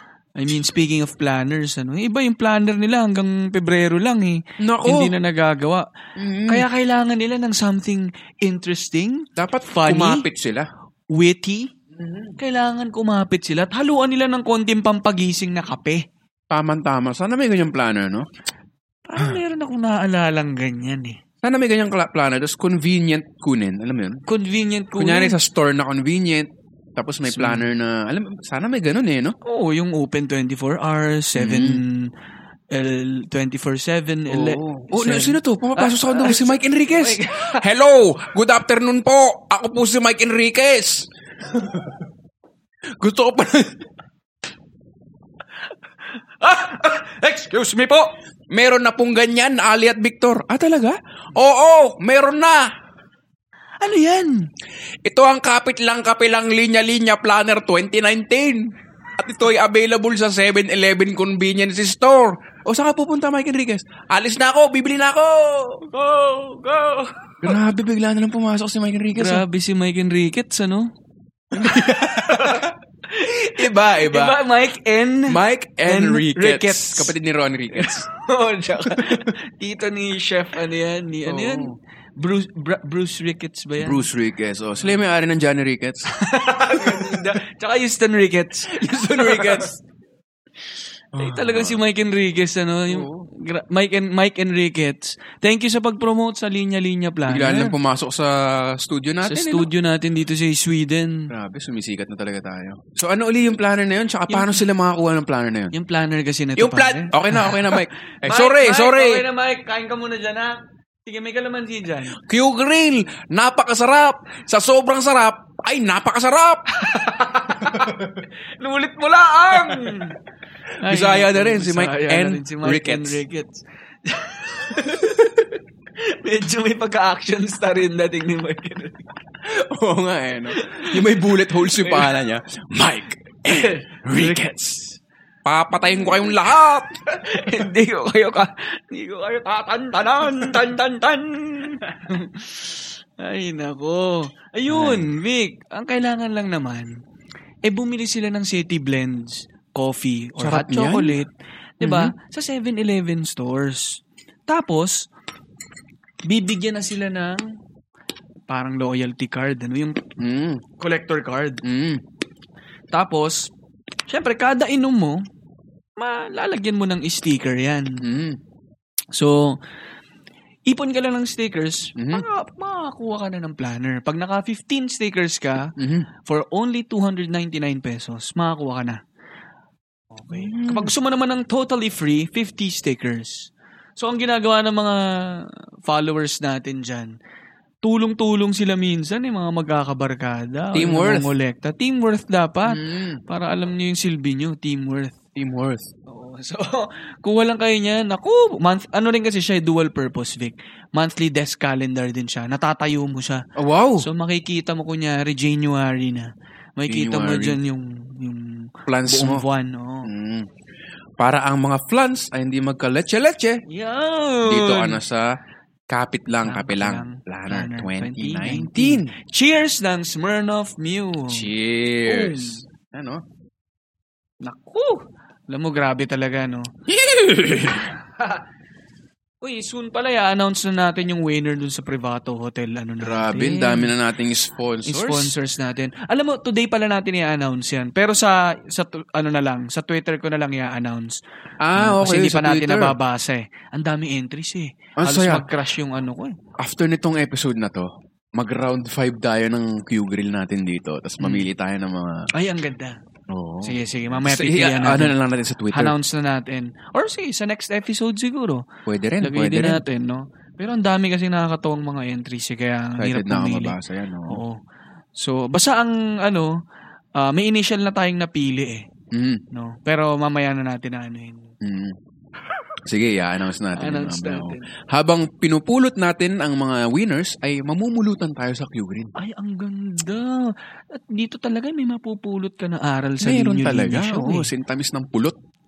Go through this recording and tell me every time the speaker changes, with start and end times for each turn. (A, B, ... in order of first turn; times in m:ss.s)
0:00.4-0:05.8 A
0:04.6-0:05.1 B
0:06.2-0:06.6 B
0:06.5-0:10.2 A
0:09.4-0:10.7 B
0:11.1-0:11.7 A
0:12.0-0:12.4 B
0:12.4-0:16.0 A
0:16.5-0:18.3 B
0:19.0-0:21.2 A
0:21.4-0:24.2 B
0:24.2-0:25.4 A
0:25.0-0:29.4 B
0:27.3-0:27.7 A
0:29.4-0:32.1 A
0:31.3-0:31.8 B
0:32.7-0:37.6 A
0:34.3-0:42.0 B
0:43.0-0:43.8 B
0:46.1-0:48.1 A
0:48.5-0:52.7 B
0:53.8-0:54.5 A
0:55.0-1:05.9 B
1:05.9-1:07.6 A
1:07.4-1:09.4 B
1:09.1-1:10.9 A
1:11.5-1:12.7 B
1:11.5-1:17.1 A
1:13.3-1:14.4 B
1:15.3-1:18.1 B
1:17.7-1:24.0 A
1:18.9-1:19.3 B
1:21.3-1:21.8 B
1:23.8-1:26.1 B
1:26.1-1:29.8 A
1:26.7-1:27.3 B
1:28.7-1:29.7 B
1:31.1-1:31.8 B
1:31.1-1:37.8 A
1:32.9-1:33.3 B
1:37.3-1:39.7 B
1:39.2-1:41.3 A
1:41.3-1:45.7 B
1:44.3-1:44.6 A
1:45.7-1:52.2 A
1:46.6-1:49.2 B
1:52.2-1:56.6 B
1:56.7-2:00.2 A
1:57.6-1:58.0 B
1:59.5-2:00.1 B
2:00.8-2:09.1 A
2:00.8-2:03.2 B
2:09.4-2:14.8 B
2:10.5-2:12.1 A
2:13.5-2:14.5 A
2:15.4-2:16.9 B
2:15.8-2:16.3 A
2:17.0-2:26.9 A
2:24.7-2:25.1 B
2:27.6-2:35.1 A
2:30.4-2:31.2 B
2:31.8-2:32.1 B
2:36.2-2:37.5 A
2:38.5-2:40.1 A
2:40.2-2:40.6 B
2:40.8-2:41.6 A
2:41.6-2:42.0 B
2:42.9-2:43.5 A
2:44.1-2:45.2 A
2:46.0-2:48.0 A
2:48.0-2:48.4 B
2:49.1-2:49.6 A
2:50.7-2:55.7 A
2:52.0-2:52.2 B
2:55.8-2:56.1 B
2:56.2-2:59.0 A
3:00.1-3:07.1 A
3:00.3-3:00.9 B
3:07.8-3:15.2 A
3:10.7-3:11.3 B
3:12.7-3:13.2 B
3:15.4-3:15.9 B
3:16.1-3:23.4 A
3:23.6-3:24.0 B
3:24.0-3:30.1 A
3:26.9-3:27.6 B
3:28.9-3:29.4 B
3:30.0-3:30.5 B
3:31.2-3:33.6 B
3:33.7-3:35.0 A
3:34.4-3:35.3 B
3:35.9-3:39.1 B
3:36.4-3:41.5 A
3:41.3-3:43.2 B
3:42.0-3:42.6 A
3:44.4-3:46.7 A
3:46.9-3:47.9 B
3:47.8-3:48.4 A
3:49.4-3:53.9 A
3:53.0-3:55.3 B
3:54.8-4:01.2 A
4:01.6-4:03.0 B
4:01.8-4:06.4 A
4:05.0-4:05.5 B
4:06.6-4:12.3 B
4:11.2-4:11.5 A
4:12.3-4:13.0 A
4:13.3-4:15.9 B
4:13.6-4:15.1 A
4:15.7-4:18.7 A
4:18.8-4:19.8 B
4:19.2-4:23.8 A
4:23.0-4:24.4 B
4:24.3-4:24.6 A
4:25.2-4:26.6 A
4:27.2-4:28.8 A
4:29.1-4:29.4 B
4:29.5-4:31.5 A
4:31.6-4:32.0 B
4:32.8-4:39.1 B
4:33.7-4:34.7 A
4:39.2-4:44.5 A
4:43.2-4:45.3 B